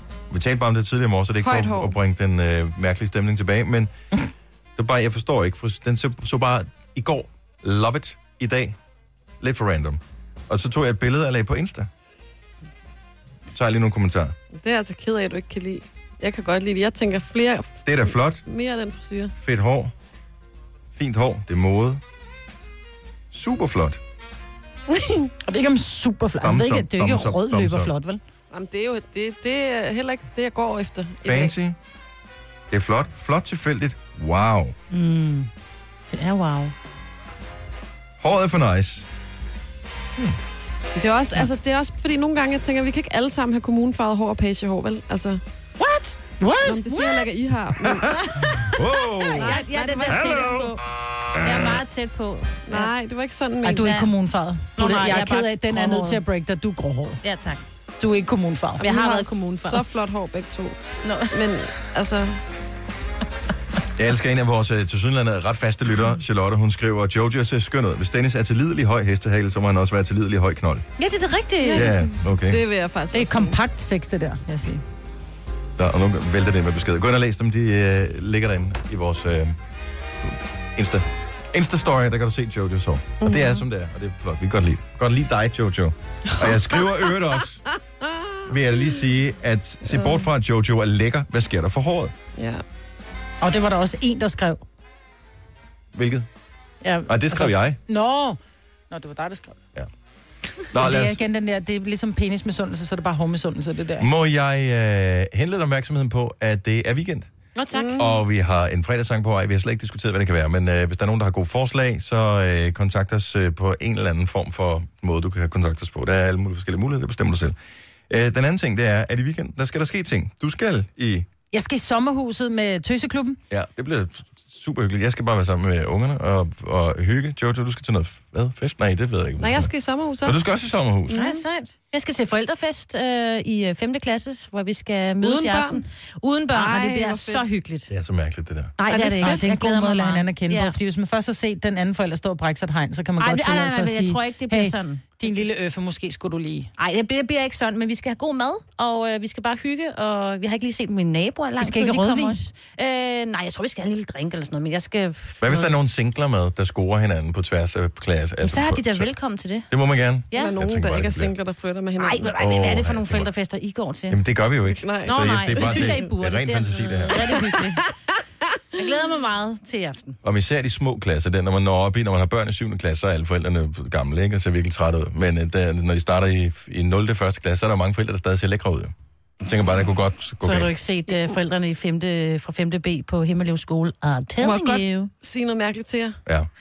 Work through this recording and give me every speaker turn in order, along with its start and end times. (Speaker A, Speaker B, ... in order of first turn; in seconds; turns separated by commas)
Speaker A: 0.3-3.9, Speaker B: 1.4-1.9, Speaker A: 4.8-8.8, Speaker A: 9.4-11.9, Speaker A: 13.5-14.3, Speaker B: 14.6-19.3, Speaker A: 17.8-18.4, Speaker A: 19.4-19.9, Speaker A: 20.9-22.0, Speaker A: 23.3-24.0, Speaker B: 24.9-25.3, Speaker C: 25.4-28.2, Speaker A: 26.4-27.9, Speaker B: 28.5-31.5, Speaker A: 31.2-31.8, Speaker A: 32.7-34.8, Speaker D: 34.9-35.5, Speaker D: 36.1-36.7, Speaker A: 38.2-39.1, Speaker B: 41.0-45.4, Speaker D: 45.8-46.1, Speaker C: 45.8-47.2, Speaker B: 46.6-48.4, Speaker A: 47.8-49.6, Speaker D: 49.1-50.8, Speaker B: 49.4-50.6, Speaker D: 51.4-52.9, Speaker B: 52.7-53.9, Speaker C: 53.6-57.2, Speaker D: 53.8-54.1, Speaker D: 54.8-56.2, Speaker D: 57.2-57.6, Speaker C: 58.0-58.9, Speaker D: 58.8-59.9, Speaker B: 58.8-60.8, Speaker D: 61.0-61.7, Speaker B: 61.3-62.4, Speaker A: 64.0-70.8, Speaker D: 71.0-71.9, Speaker C: 71.2-71.7, Speaker B: 71.6-73.6, Speaker A: 71.7-72.6, Speaker C: 73.1-74.8, Speaker A: 75.8-79.5, Speaker A: 80.2-87.6, Speaker B: 83.2-83.6, Speaker A: 88.5-92.1, Speaker B: 89.9-90.2, Speaker B: 92.4-92.6, Speaker C: 93.4-94.6, Speaker A: 95.9-96.3, Speaker C: 96.8-98.4, Speaker A: 97.1-97.8, Speaker C: 98.9-99.6, Speaker A: 100.7-101.2, Speaker C: 100.7-104.1, Speaker A: 104.0-107.3, Speaker D: 107.5-108.1, Speaker B: 107.7-108.2, Speaker A: 108.0-117.5, Speaker A: 118.1-121.2, Speaker C: 121.5-123.4, Speaker A: 123.5-129.7, Speaker B: 129.4-130.5, Speaker A: 130.2-131.2, Speaker B: 131.1-131.4, Speaker D: 131.1-137.9, Speaker B: 135.2-135.8, Speaker B: 136.5-137.4, Speaker A: 137.9-138.7, Speaker D: 138.8-140.8, Speaker C: 138.8-146.7, Speaker B: 138.9-139.4, Speaker D: 143.2-145.1, Speaker D: 146.8-155.7, Speaker C: 151.6-152.3, Speaker A: 155.4-159.1, Speaker D: 158.4-159.7, Speaker A: 159.7-161.3, Speaker D: 160.3-160.6, Speaker B: 160.3-162.3, Speaker D: 162.0-164.2, Speaker A: 162.3-163.3, Speaker A: 164.1-167.3, Speaker B: 164.7-166.1, Speaker D: 165.0-167.8, Speaker B: 167.2-167.6, Speaker D: 168.7-170.2, Speaker A: 170.2-180.7, Speaker D: 180.4-185.1, Speaker B: 184.4-186.2